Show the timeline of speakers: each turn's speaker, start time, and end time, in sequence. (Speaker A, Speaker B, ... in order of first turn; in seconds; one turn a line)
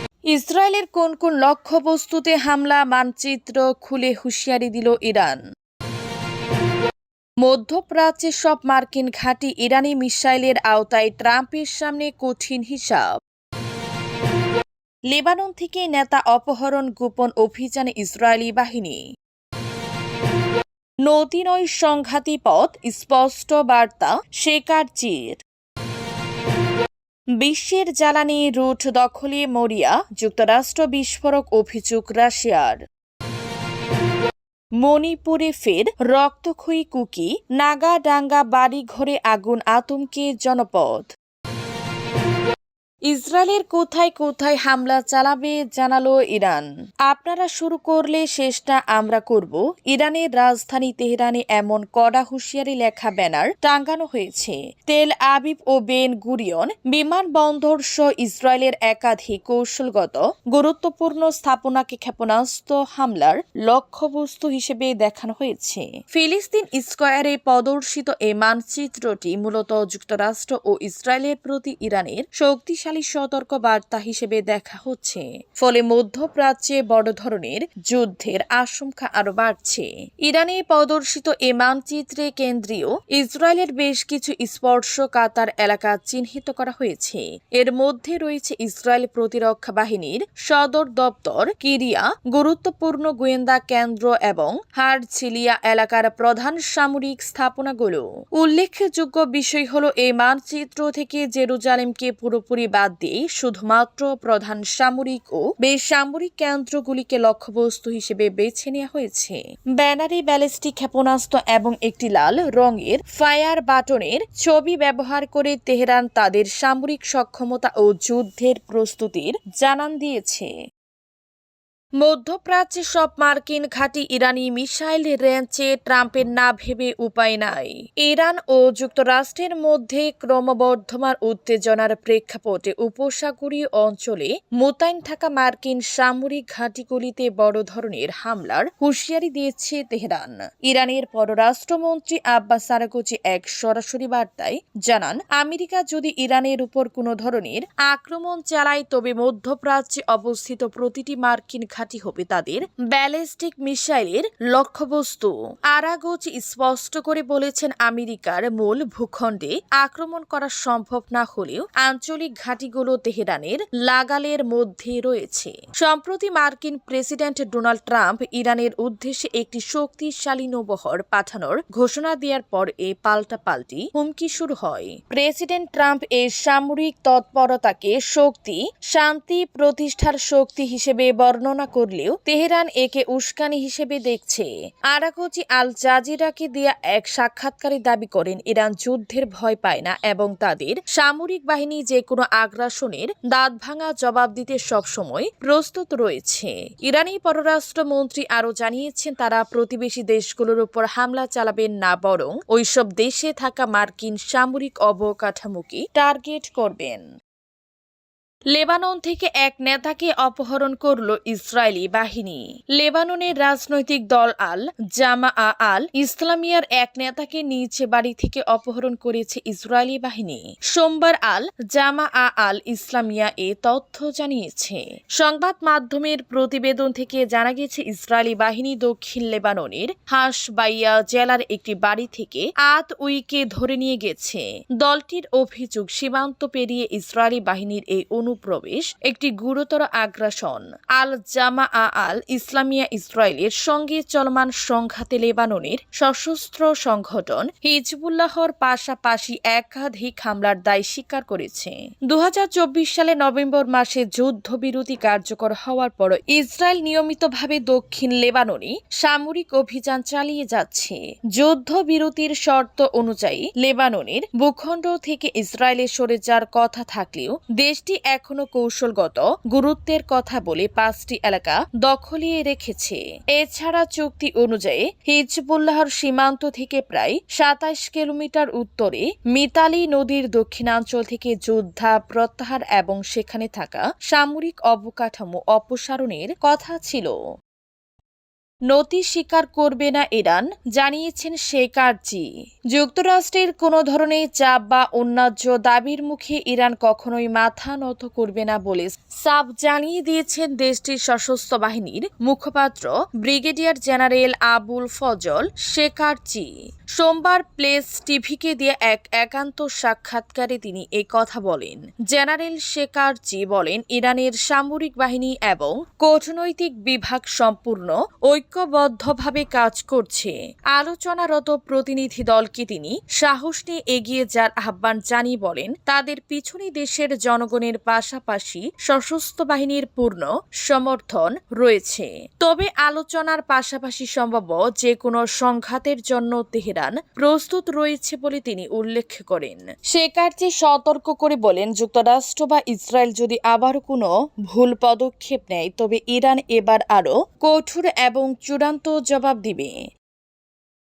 Speaker A: 0.3-5.4
Speaker A: 7.4-13.1
Speaker A: 15.1-19.0
Speaker A: 21.0-25.4
Speaker A: 27.4-32.8
Speaker A: 34.8-41.1
Speaker A: 43.1-120.5
Speaker A: 122.0-207.0
Speaker A: 208.5-287.1
Speaker A: 288.7-349.8